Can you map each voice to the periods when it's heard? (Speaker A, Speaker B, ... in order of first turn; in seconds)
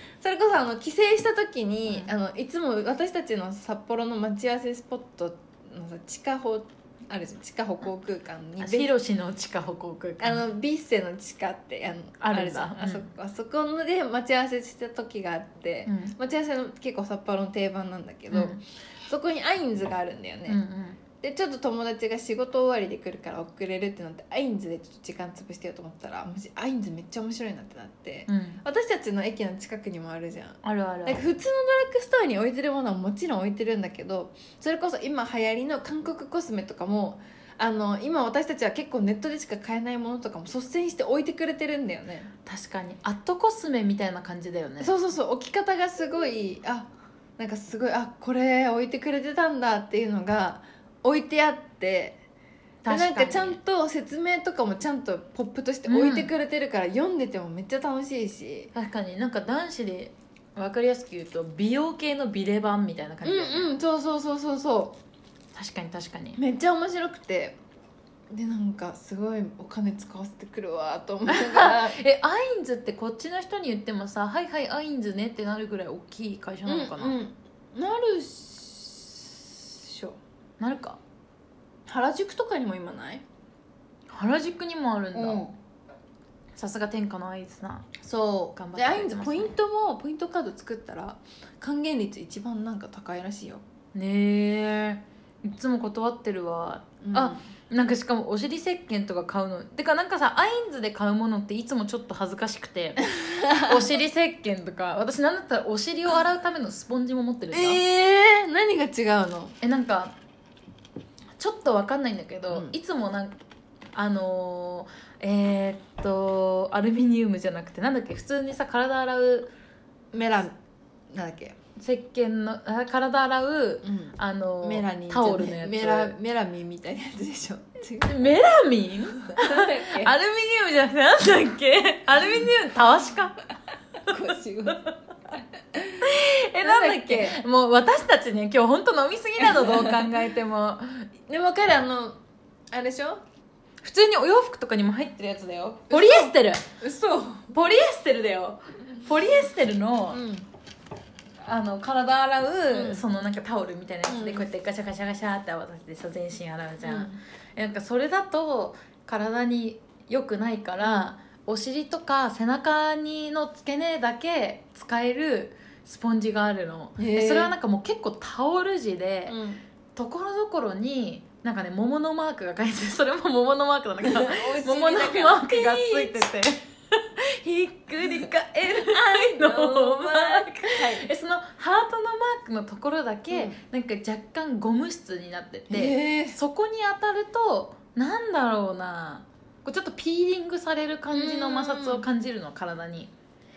Speaker A: 0.2-8.9, 10.2-20.6, 21.2-42.3, 44.8-52.2, 52.9-58.7, 63.2-65.0, 66.3-67.6, 68.3-72.0, 76.7-80.2, 81.9-83.2, 85.1-85.5, 88.4-93.6, 97.0-97.5, 103.2-103.8, 107.5-109.5, 120.1-120.5, 121.1-121.5, 123.8-128.2, 129.2-130.1, 134.0-134.9, 135.7-136.1, 136.6-137.4, 139.5-139.9, 141.3-142.2, 142.7-143.2, 145.9-147.5, 150.1-150.5, 152.7-153.0, 154.1-154.4, 156.8-157.2, 160.8-161.1, 167.0-167.5, 169.3-169.6, 174.0-176.2, 178.7-181.0, 183.3-183.6, 185.7-186.4, 191.1-192.0
Speaker B: 8.6-10.4, 12.2-13.1, 15.9-16.1, 18.3-18.6, 20.5-21.0, 28.3-28.6, 30.6-31.2, 42.5-44.9, 52.8-53.6, 55.9-56.3, 58.7-63.7, 65.5-66.4, 71.3-77.2, 80.6-81.0, 84.1-85.5, 86.5-89.5, 93.9-103.0, 103.6-107.8, 109.6-110.2, 111.4-113.4, 113.9-119.5, 121.8-126.2, 128.0-133.4, 136.0-141.1, 143.8-146.6, 147.5-150.2, 151.4-169.4, 169.9-193.1